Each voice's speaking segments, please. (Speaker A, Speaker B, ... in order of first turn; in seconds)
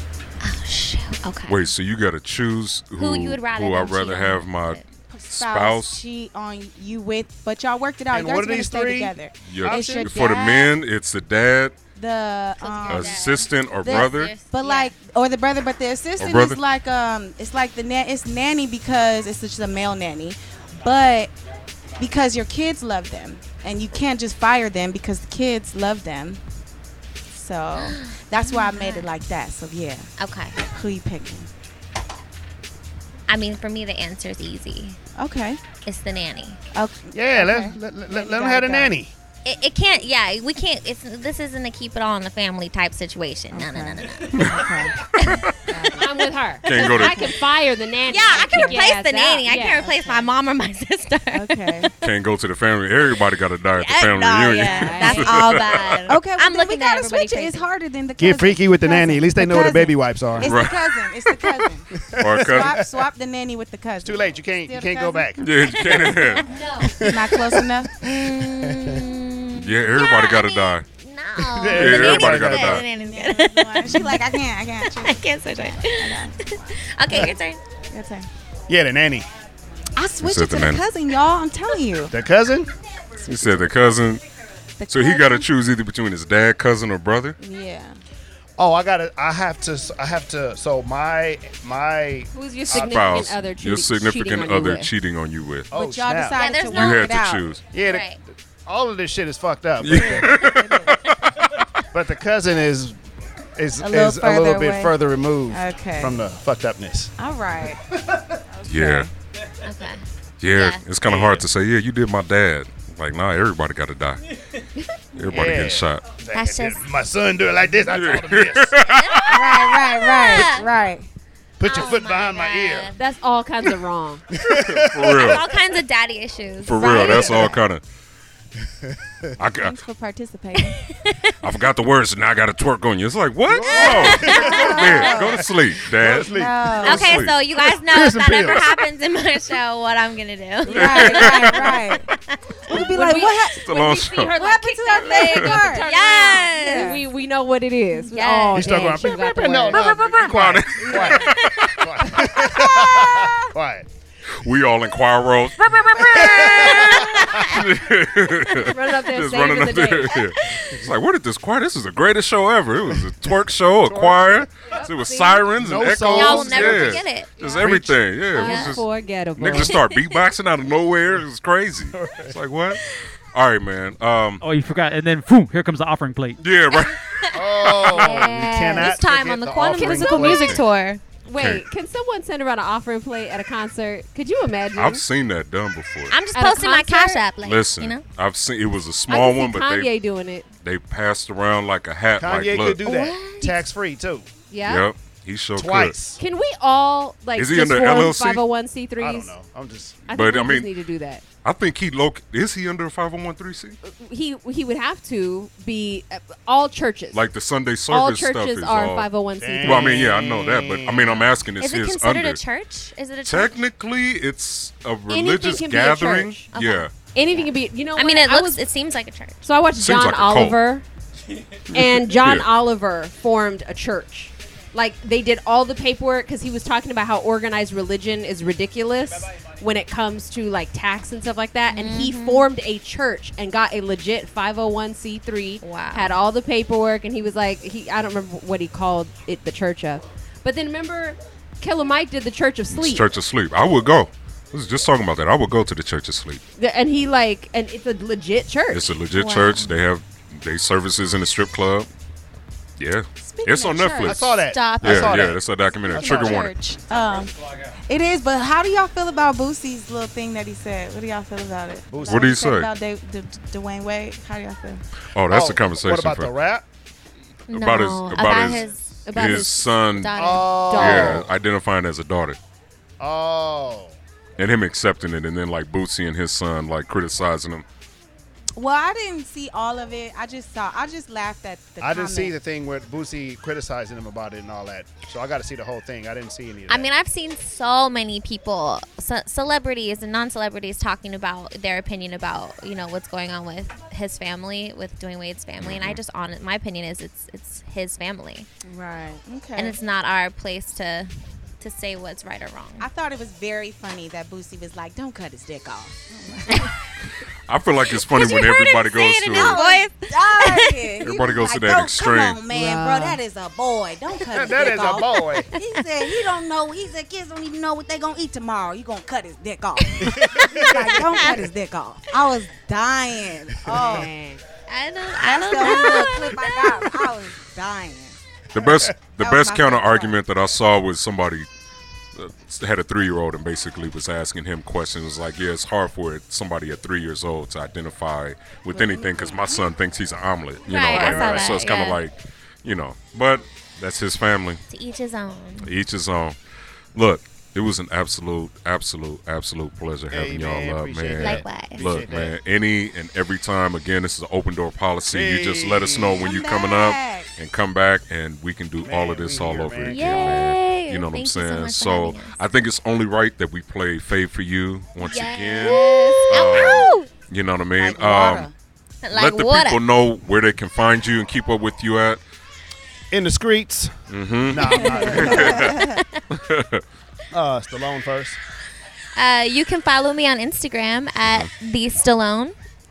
Speaker A: 0.4-1.6, 3.0-4.9, 12.6-14.9, 27.8-29.1, 30.2-30.6, 33.3-35.0, 35.8-36.6, 39.4-45.5, 48.1-51.9, 53.8-57.6, 65.7-67.0, 68.0-74.2, 74.8-77.6, 96.3-97.2, 97.8-98.2, 109.6-110.8, 116.3-116.8, 119.0-120.7, 121.6-123.0, 125.0-127.4, 130.6-131.4, 133.7-135.0, 136.8-141.8, 142.7-147.0, 148.1-149.0, 156.4-157.4, 160.4-160.8, 166.1-167.7, 168.3-168.8, 169.5-170.2, 176.7-177.4, 178.8-181.0, 186.1-188.0, 192.8-193.7, 211.6-213.6, 216.5-219.4, 231.7-232.5, 235.6-236.2, 253.9-255.2, 267.5-269.0, 269.9-270.9, 286.7-298.5, 299.6-302.9, 307.9-310.9, 319.8-321.4, 324.7-326.7, 340.7-342.0, 344.7-345.7, 351.2-351.8, 359.9-362.4, 365.0-367.1, 369.0-369.8, 375.7-376.2, 379.1-382.6
Speaker B: 1.5-6.0, 9.4-11.8, 12.9-14.3, 16.2-16.6, 44.3-44.6, 45.2-45.7, 46.6-47.3, 52.0-56.2, 60.4-60.8, 62.2-62.8, 65.4-66.4, 69.6-70.8, 71.7-72.8, 80.2-80.8, 83.2-84.2, 84.9-87.4, 92.7-95.7, 96.7-97.6, 99.8-101.7, 108.7-109.1, 110.4-114.2, 115.1-116.0, 117.9-119.9, 124.5-125.4, 126.6-127.8, 129.4-129.8, 131.4-137.3, 140.7-142.1, 143.5-144.3, 145.0-145.5, 149.7-152.6, 154.3-172.8, 173.3-174.4, 176.4-177.0, 177.6-178.2, 180.3-180.6, 181.3-181.6, 184.7-186.1, 187.4-189.9, 190.6-192.8, 194.6-196.0, 197.3-198.4, 200.1-200.7, 201.4-203.8, 207.1-209.1, 209.6-212.4, 213.2-216.9, 219.7-220.6, 221.7-222.5, 242.7-246.4, 248.7-251.9, 252.8-256.6, 262.0-262.7, 265.1-266.3, 267.5-272.4, 274.4-277.6, 295.6-296.0, 307.5-309.6, 311.0-312.4, 328.5-331.5, 332.1-344.6, 345.6-346.4, 346.9-368.5, 369.1-372.2, 374.1-376.8, 381.2-381.5
Speaker C: 5.1-10.7, 11.9-21.3, 22.0-26.4, 27.3-30.1, 30.7-31.5, 35.2-35.6, 36.7-39.0, 43.5-45.1, 45.6-46.1, 48.2-48.8, 49.6-50.3, 51.3-51.9, 54.6-61.9, 62.4-65.3, 67.0-67.9, 72.7-77.3, 77.9-78.3, 80.0-82.1, 84.8-85.5, 87.4-88.0, 95.7-97.5, 99.9-101.0, 103.8-105.0, 105.5-106.2, 107.2-107.8, 108.5-109.1, 119.2-121.1, 126.8-127.6, 129.5-130.8, 133.7-135.5, 136.2-137.1, 140.7-142.1, 142.7-143.6, 144.2-147.0, 253.2-254.2, 255.9-257.3, 257.9-264.8, 278.6-282.4, 298.6-299.8, 302.8-306.7, 309.3-324.1, 325.2-328.2, 329.2-330.2, 338.7-339.7, 356.1-357.3, 367.8-368.5, 375.0-376.0
Speaker D: 8.1-10.3, 37.1-39.1, 58.2-60.6, 61.9-63.0, 64.0-69.0, 71.5-72.8, 78.7-79.3, 82.1-82.7, 88.6-93.3, 95.7-96.4, 97.7-100.4, 101.9-103.0, 103.6-107.1, 111.0-111.4, 115.2-118.7, 121.6-122.9, 124.3-125.4, 128.9-129.3, 133.5-138.8, 148.5-153.8, 156.0-157.4, 163.8-164.5, 165.5-167.1, 171.9-172.3, 177.3-180.6, 192.2-194.3, 195.6-196.2, 199.0-200.0, 209.4-211.3, 254.0-256.5, 261.9-262.4, 265.3-266.6, 270.1-271.3, 273.0-273.9, 281.8-286.9, 314.2-315.5, 320.0-321.2, 323.6-324.1, 328.6-328.9, 340.8-341.6, 350.1-352.3, 355.1-356.2, 358.8-360.4, 373.1-373.9, 374.5-375.7, 377.3-378.4
Speaker E: 46.0-49.8, 54.6-55.2, 92.3-94.9, 123.0-124.2, 142.9-143.3, 144.4-150.2, 150.9-151.1, 158.6-160.2, 164.7-165.4, 168.3-169.7, 177.9-178.9, 179.6-180.5, 181.2-185.0, 186.3-187.2, 189.1-190.5, 194.5-194.9, 196.2-199.3, 200.1-201.2, 203.8-207.2, 207.9-210.1, 215.1-216.5, 217.1-218.6, 219.4-220.8, 221.7-243.1, 246.6-249.0, 269.0-269.7, 270.3-271.1, 312.5-313.2, 323.8-324.4, 365.9-366.2
Speaker F: 174.4-176.4